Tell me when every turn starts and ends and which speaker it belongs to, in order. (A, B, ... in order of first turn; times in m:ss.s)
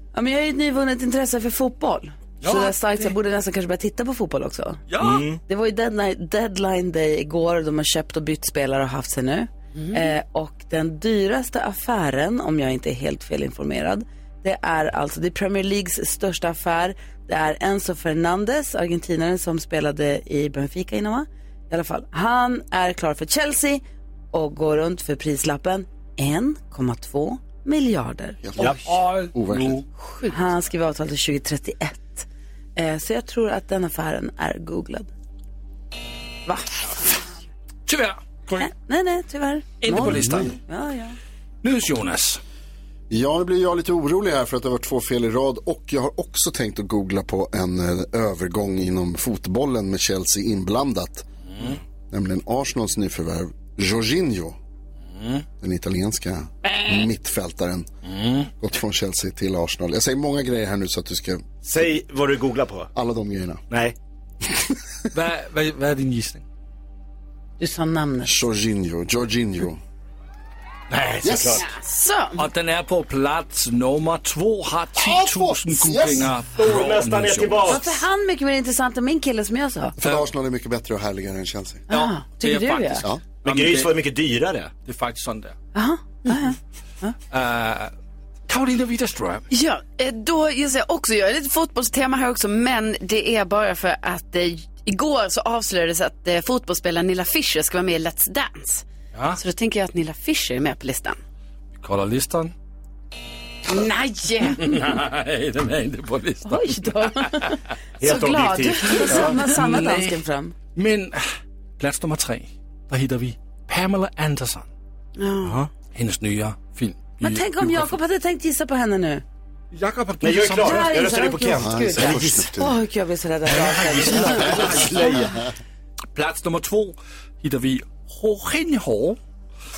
0:00.1-0:04.8 A
0:02.4-0:03.1 B
0:04.9-0:05.3 B
0:05.0-0:05.4 C
0:05.5-0:28.4 A
0:28.4-0:29.8 D
0:28.6-0:29.8 B
0:30.3-0:35.1 A
0:36.5-0:37.1 A
0:37.9-0:38.7 B
0:38.6-0:41.2 A
0:39.8-0:40.6 B
0:41.6-0:42.4 B
0:43.1-0:51.2 D
0:52.1-0:54.6 D
0:55.1-0:55.4 B
0:55.6-0:57.9 D
0:56.6-0:57.1 B
0:58.0-0:58.5 B
0:58.6-1:01.4 D
1:01.6-1:02.9 C
1:03.0-1:03.6 D
1:03.7-1:04.0 C
1:05.1-1:06.4 B
1:07.6-1:08.4 A
1:08.2-1:09.8 D
1:10.9-1:11.7 C
1:11.2-1:11.6 D
1:11.6-1:12.4 E
1:12.4-1:17.8 B
1:15.0-1:16.4 D
1:16.6-1:17.9 C
1:17.7-1:20.0 A
1:20.0-1:21.8 D
1:21.9-1:23.0 A
1:21.9-1:24.0 B
1:23.4-1:24.7 C
1:24.8-1:25.6 B
1:25.8-1:27.2 A
1:27.3-1:27.9 B
1:28.5-1:29.4 B
1:29.5-1:38.8 E
1:39.1-1:39.4 B
1:39.4-1:41.2 E
1:41.8-1:42.5 B
1:43.7-1:44.8 E
1:44.6-1:47.6 B
1:46.5-1:47.4 A
1:48.0-1:49.3 C
1:48.0-1:50.5 A
1:49.1-1:50.2 B
1:50.8-1:51.2 B
1:51.8-1:54.7 B
1:55.2-1:55.5 A
1:55.4-1:55.7 C
1:55.9-1:58.0 B
1:57.2-1:59.2 A
1:59.7-2:01.2 B
2:00.2-2:02.5 C
2:00.6-2:05.0 A
2:01.5-2:02.8 D
2:03.5-2:05.4 B
2:04.4-2:05.4 D
2:06.1-2:09.2 B